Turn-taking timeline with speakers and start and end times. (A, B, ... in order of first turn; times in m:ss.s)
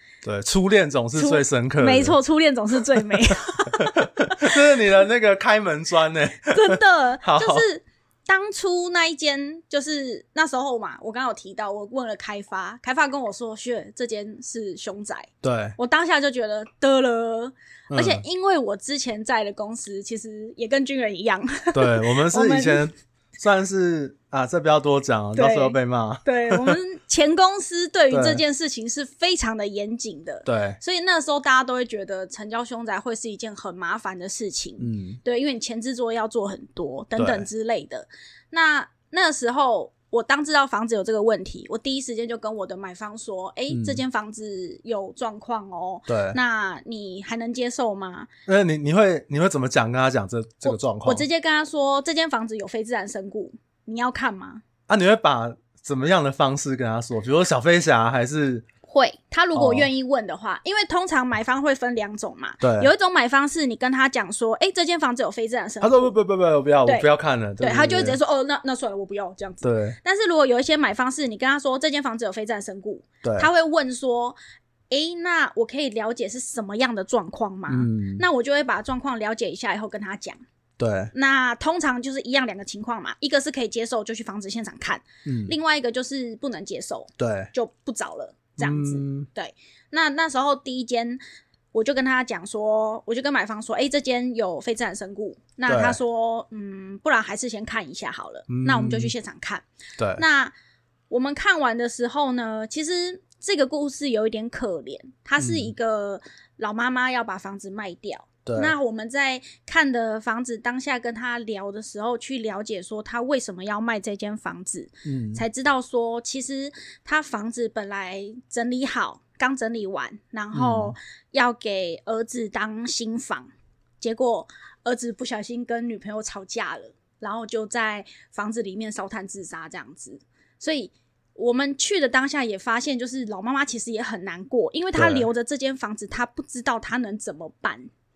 0:00.2-0:02.2 A
0:01.2-0:04.6 B
0:03.3-0:07.7 A
0:06.5-0:22.9 B
0:15.4-0:15.8 A
0:17.9-0:18.2 A
0:21.7-0:26.8 A
0:25.4-0:48.3 B
0:28.1-0:28.4 A
0:30.4-0:30.8 A
0:34.8-0:35.2 A
0:37.2-0:37.5 A
0:43.7-0:44.0 A
0:46.1-0:46.4 A
0:48.5-0:51.2 A
0:50.6-0:54.6 B
0:54.9-0:58.7 A
0:58.9-1:06.2 B
0:59.5-0:59.9 A
1:02.6-1:02.9 A
1:05.8-1:08.2 A
1:07.6-1:14.4 B
1:09.6-1:10.0 A
1:13.2-1:13.5 A
1:14.9-1:20.4 B
1:17.7-1:18.2 A
1:20.8-1:21.1 A
1:21.1-1:31.2 B
1:25.2-1:25.6 A
1:27.2-1:27.5 A
1:28.6-1:29.3 A
1:31.7-1:39.6 B
1:35.7-1:36.0 A
1:38.5-1:39.1 A
1:40.0-1:40.2 A
1:40.2-1:40.5 B
1:41.1-2:17.9 B
1:45.4-1:45.7 A
1:48.4-1:48.7 A
1:55.0-1:55.4 A
2:00.5-2:01.0 A
2:15.0-2:15.3 A